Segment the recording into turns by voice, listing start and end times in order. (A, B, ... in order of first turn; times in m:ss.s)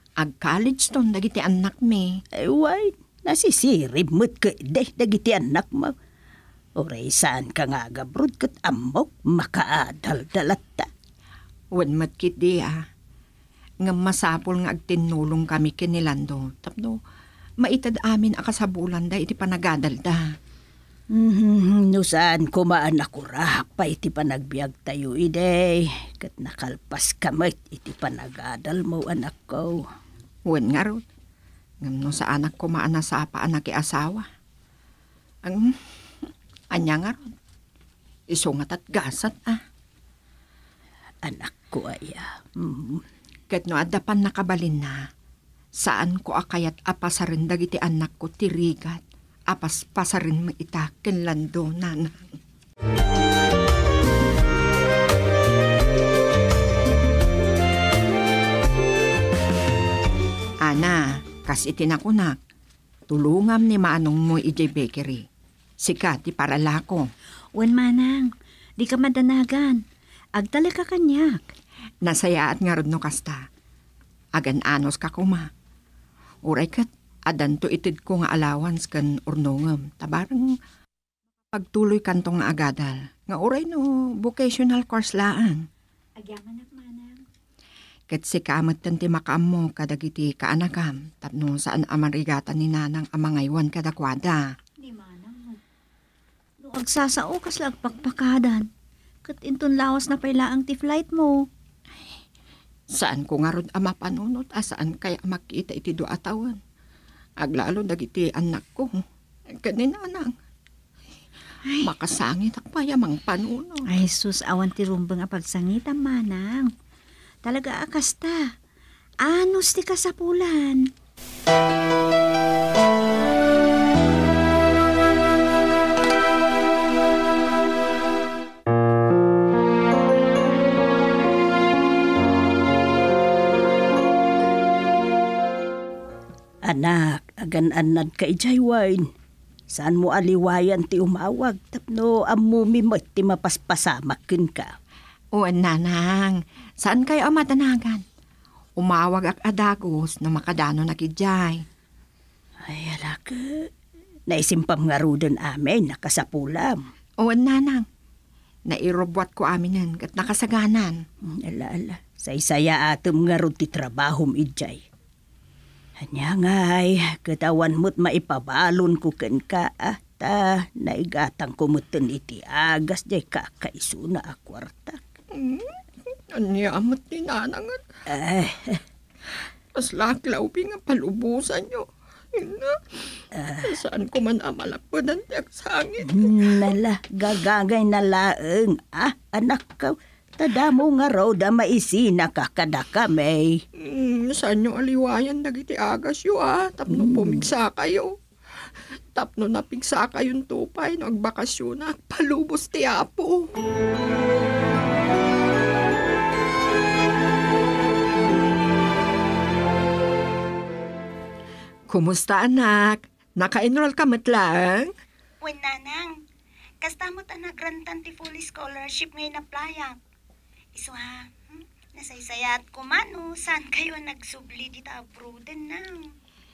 0:00.2-0:02.2 A
0:02.3-0:05.9 B
0:06.8-0:10.9 B
0:11.7-0:12.9 A
0:13.8-0:17.0 A
0:17.6-0:20.2 A
0:21.1-0:29.8 B
0:30.5-0:31.0 A
0:31.8-0:34.3 A
0:35.4-0:35.8 A
0:36.7-0:37.3 A
0:38.3-0:39.6 A
0:41.2-0:43.0 B
0:43.5-0:45.1 A
0:45.8-0:52.3 A
1:00.6-1:02.4 A
1:03.1-1:05.2 A
1:05.8-1:07.1 A
1:07.6-1:09.8 C
1:10.4-1:11.5 C
1:12.0-1:13.4 A
1:14.4-1:15.5 A
1:16.4-1:20.5 A
1:21.5-1:25.7 A
1:26.2-1:27.2 C
1:28.1-1:34.4 A
1:34.8-1:35.6 C
1:36.6-1:38.7 C
1:39.2-1:41.5 C
1:42.9-1:46.6 A
1:47.4-1:49.0 A
1:49.5-1:50.3 A
1:51.8-1:53.9 A
1:53.9-1:56.7 C
1:57.4-1:58.5 C
1:59.2-2:00.9 C
2:16.6-2:19.1 B
2:19.7-2:24.8 B
2:25.3-2:28.0 A
2:28.8-2:31.6 A
2:32.6-2:33.7 B
2:34.3-2:36.8 B
2:37.2-2:37.9 A
2:38.7-2:41.0 A
2:41.3-2:44.8 B
2:46.0-2:55.0 B
2:55.3-2:57.8 A
2:58.1-2:58.8 B
2:59.7-3:03.0 A
3:03.3-3:03.8 B
3:03.6-3:06.7 A
3:06.0-3:13.6 B
3:13.8-3:18.1 A
3:17.1-3:17.4 B
3:19.1-3:23.5 A
3:31.9-3:34.9 A
3:35.4-3:36.2 D
3:36.8-3:40.0 D
3:40.8-3:46.1 D